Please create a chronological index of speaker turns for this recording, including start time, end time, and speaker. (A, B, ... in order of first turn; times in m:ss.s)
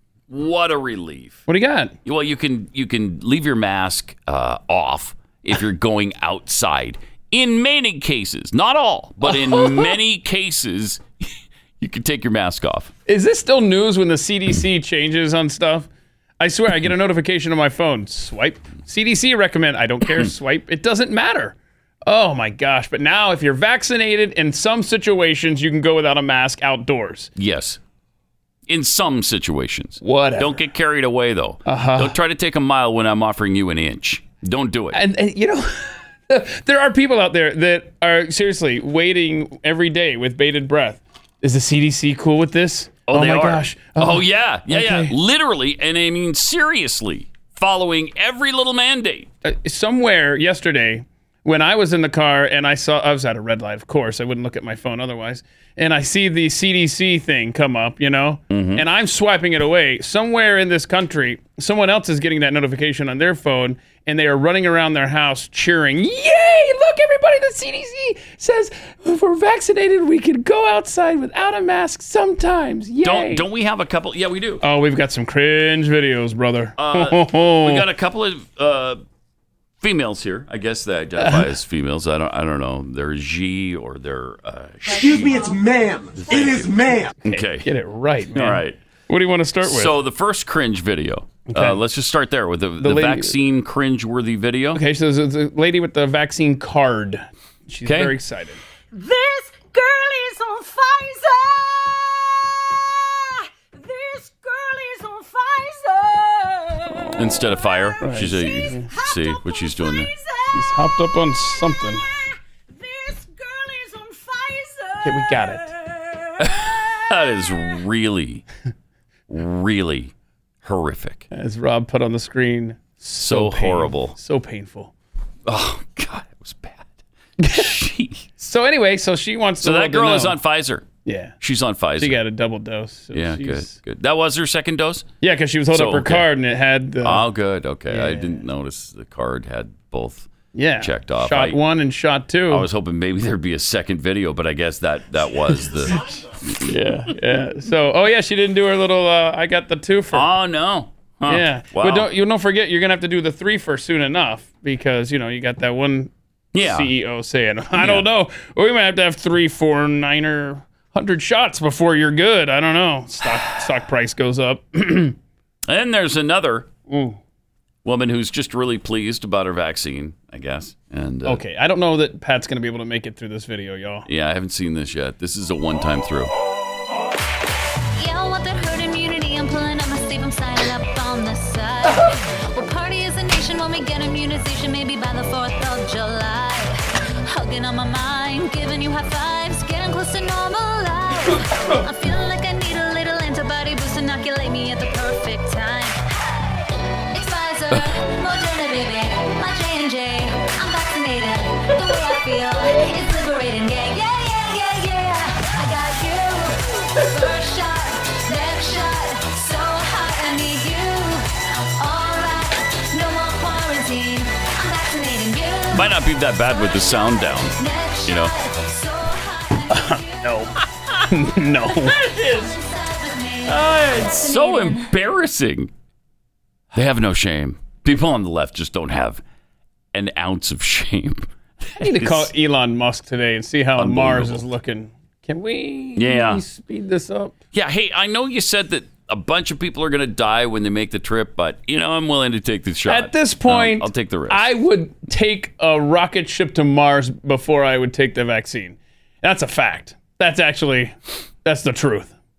0:00.3-0:01.4 A
0:01.5-0:01.9 B
0:02.0-0:11.0 A
0:09.2-0:10.0 B
0:11.8-0:12.9 A
0:13.1-0:15.9 B
0:16.4-0:27.3 B
0:27.4-0:27.8 A
0:28.7-0:35.0 A
0:30.0-0:30.6 B
0:31.6-0:32.2 B
0:34.9-0:45.1 B
0:43.1-0:49.3 A
0:49.4-1:13.4 B
0:58.5-0:58.8 A
1:13.0-1:14.6 A
1:14.6-1:17.8 B
1:16.8-1:19.0 A
1:19.8-1:25.4 A
1:21.2-1:21.5 B
1:24.9-1:27.1 C
1:26.2-1:27.7 A
1:27.2-1:29.9 B
1:28.3-1:28.8 A
1:29.6-1:34.8 A
1:31.5-1:31.8 B
1:32.8-1:33.3 B
1:34.7-1:38.6 B
1:37.8-1:38.1 A
1:38.9-1:47.4 D
1:47.2-1:50.1 A
1:48.0-1:48.9 B
1:48.6-1:50.8 D
1:50.5-1:52.0 B
1:52.7-1:56.3 D
1:55.0-1:55.7 B
1:56.4-1:58.4 A
1:59.3-2:00.1 A
2:00.6-2:01.2 A
2:01.3-2:04.9 B
2:03.2-2:04.1 A
2:05.4-2:06.9 A
2:07.4-2:07.7 B
2:07.5-2:08.3 A
2:08.4-2:10.4 B
2:09.6-2:10.8 A
2:11.0-2:11.3 B
2:11.4-2:12.2 A
2:12.0-2:13.7 B
2:13.1-2:15.0 A
2:15.2-2:17.2 B
2:15.7-2:16.3 A
2:17.0-2:20.3 A
2:17.9-2:18.4 B
2:20.5-2:22.6 B
2:20.8-2:21.6 A
2:22.5-2:26.6 A
2:26.6-2:30.3 B
2:30.1-2:32.1 A
2:31.3-2:45.2 B
2:36.5-2:36.9 A
2:37.8-2:38.0 A
2:45.7-2:46.7 A
2:46.9-2:47.2 B
2:47.8-2:51.4 A
2:51.2-2:54.0 B
2:54.1-2:56.3 A
2:57.9-3:16.6 E
3:17.1-3:36.0 E
3:35.7-3:37.5 A
3:36.6-3:40.3 E
3:38.1-3:38.3 A
3:39.7-3:40.5 B
3:41.1-3:42.0 B
3:41.7-3:44.9 E
3:41.9-3:42.5 A
3:43.4-3:45.7 A
3:46.7-3:49.2 A
3:49.9-3:52.3 A
3:51.8-3:57.3 B
3:53.8-3:54.4 A
3:56.0-3:56.4 A
3:57.5-4:04.5 A
4:02.9-4:12.1 B